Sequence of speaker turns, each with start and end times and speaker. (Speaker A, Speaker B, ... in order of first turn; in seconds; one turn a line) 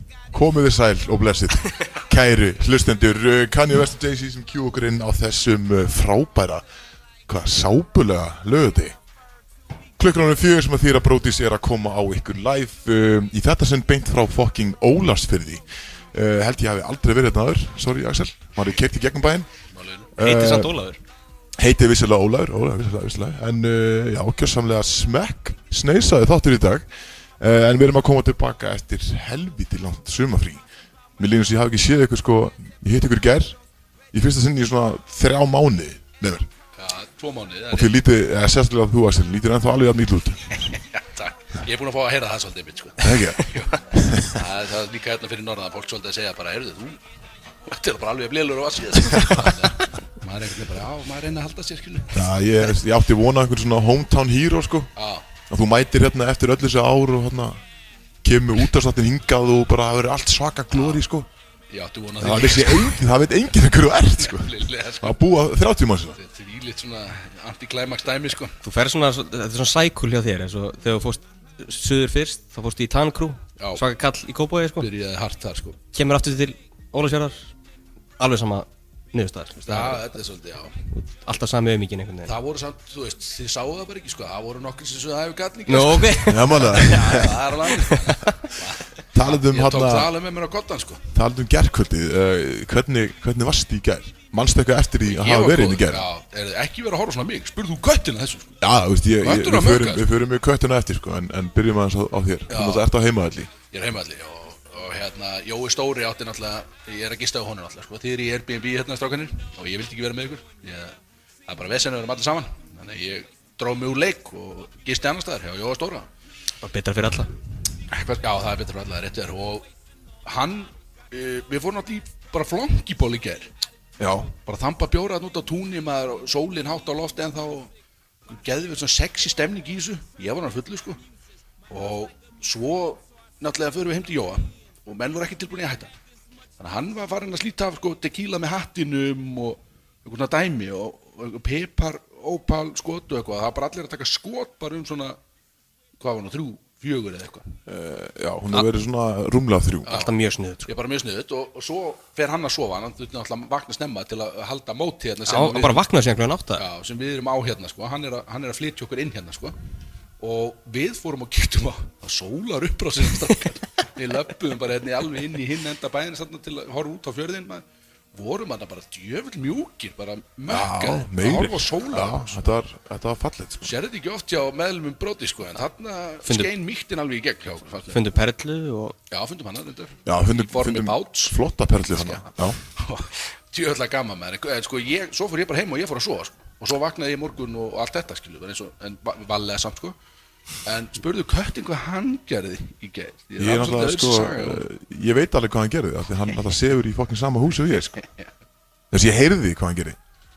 Speaker A: 0.3-6.6
Speaker A: 7.3-8.9
Speaker A: 10.0-19.5
Speaker B: 19.7-20.1
Speaker A: 20.1-20.7
Speaker C: 20.2-21.0
Speaker A: 21.6-26.9
Speaker A: 27.4-30.6
Speaker A: 31.2-33.5
Speaker A: 34.1-36.5
Speaker B: 36.8-37.9
Speaker A: 37.7-40.5
Speaker B: 40.7-47.0
Speaker A: 43.0-44.4
Speaker B: 47.7-52.3
Speaker A: 52.1-54.9
Speaker B: 55.0-55.2
Speaker A: 55.5-57.6
Speaker A: 58.2-61.3
Speaker B: 60.7-61.0
Speaker B: 61.7-63.1
Speaker A: 62.2-66.2
Speaker B: 64.2-65.2
Speaker B: 66.2-68.5
Speaker C: 68.6-74.9
Speaker B: 74.8-75.8
Speaker C: 75.9-77.5
Speaker C: 78.2-80.0
Speaker B: 79.7-80.9
Speaker C: 80.9-82.3
Speaker B: 82.2-91.0
Speaker C: 85.7-88.3
Speaker A: 86.3-87.5
Speaker A: 89.1-90.1
Speaker A: 91.1-96.1
Speaker B: 95.1-98.6
Speaker A: 98.6-103.5
Speaker B: 99.2-100.0
Speaker B: 102.5-102.8
Speaker B: 103.7-110.9
Speaker B: 111.5-116.1
Speaker C: 116.6-117.3
Speaker B: 117.9-119.7
Speaker B: 120.2-123.5
Speaker A: 124.0-124.3
Speaker B: 124.4-127.7
Speaker B: 128.3-131.0
Speaker B: 131.7-135.9
Speaker B: 136.6-145.2
Speaker B: 146.0-147.5
Speaker A: 147.7-149.9
Speaker C: 149.9-150.7
Speaker B: 150.7-155.8
Speaker C: 155.3-156.6
Speaker B: 156.6-159.6
Speaker B: 160.2-172.5
Speaker A: 170.5-173.7
Speaker B: 173.6-178.0
Speaker C: 176.2-176.5
Speaker C: 177.9-178.9
Speaker B: 179.1-189.9
Speaker A: 180.0-182.6
Speaker B: 190.6-194.6
Speaker A: 193.4-198.0
Speaker B: 197.9-198.3
Speaker A: 198.9-200.0